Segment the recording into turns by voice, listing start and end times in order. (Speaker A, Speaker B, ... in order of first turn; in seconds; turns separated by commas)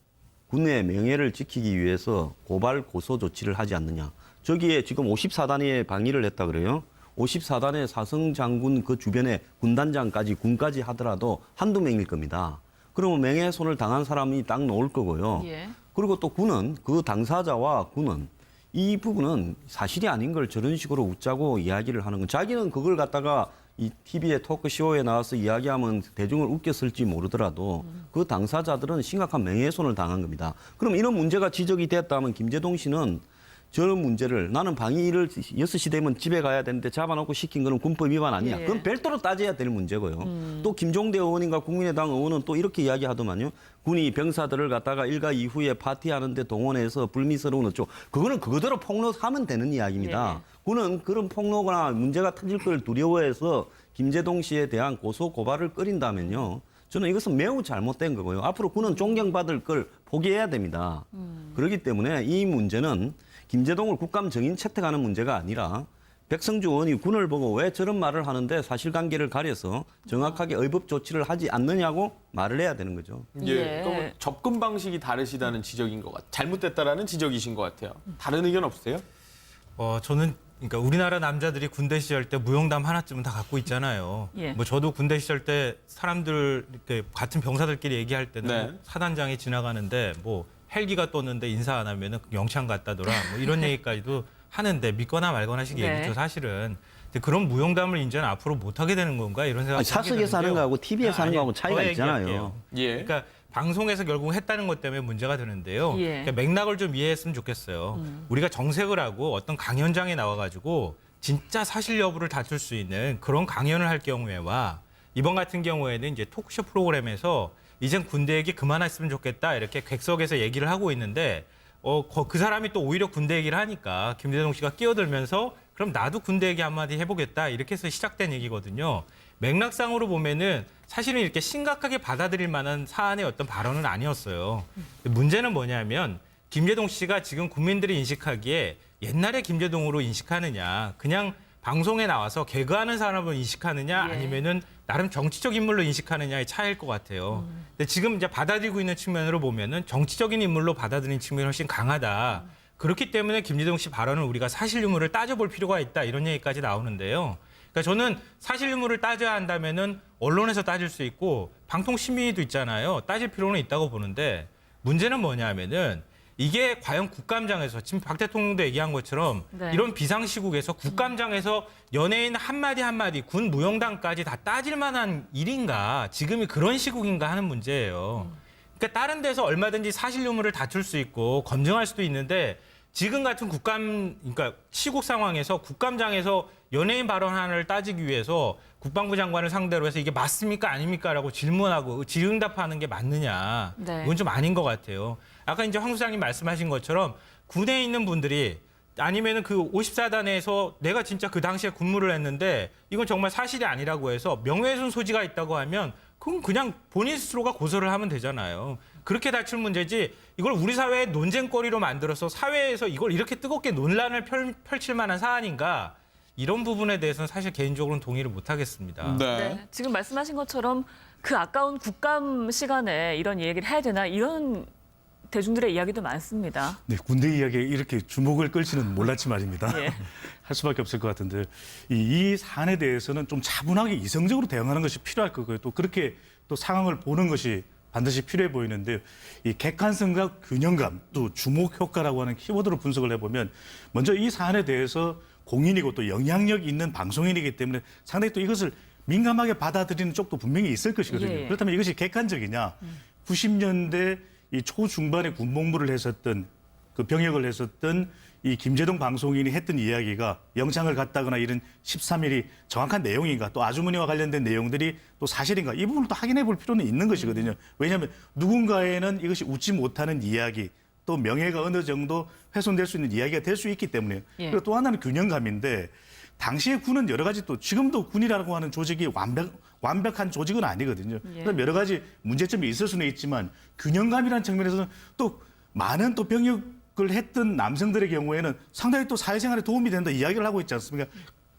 Speaker A: 0.5-73.3, Speaker B: 15.4-15.7, Speaker B: 38.4-38.9, Speaker B: 40.2-40.7, Speaker B: 50.0-50.4, Speaker B: 61.1-61.5, Speaker C: 73.3-79.0, Speaker B: 73.4-74.1, Speaker D: 79.8-219.2, Speaker B: 84.3-84.6, Speaker C: 88.4-88.8, Speaker B: 95.7-96.1, Speaker A: 99.7-102.6, Speaker C: 102.7-103.1, Speaker B: 105.9-106.3, Speaker B: 107.9-108.3, Speaker B: 143.9-144.4, Speaker B: 169.5-169.9, Speaker B: 193.8-194.1, Speaker C: 219.0-219.6, Speaker B: 219.3-224.7, Speaker B: 225.3-226.8, Speaker E: 226.9-291.3, Speaker B: 229.7-230.0, Speaker B: 251.1-251.6, Speaker B: 267.1-267.5, Speaker B: 281.2-281.6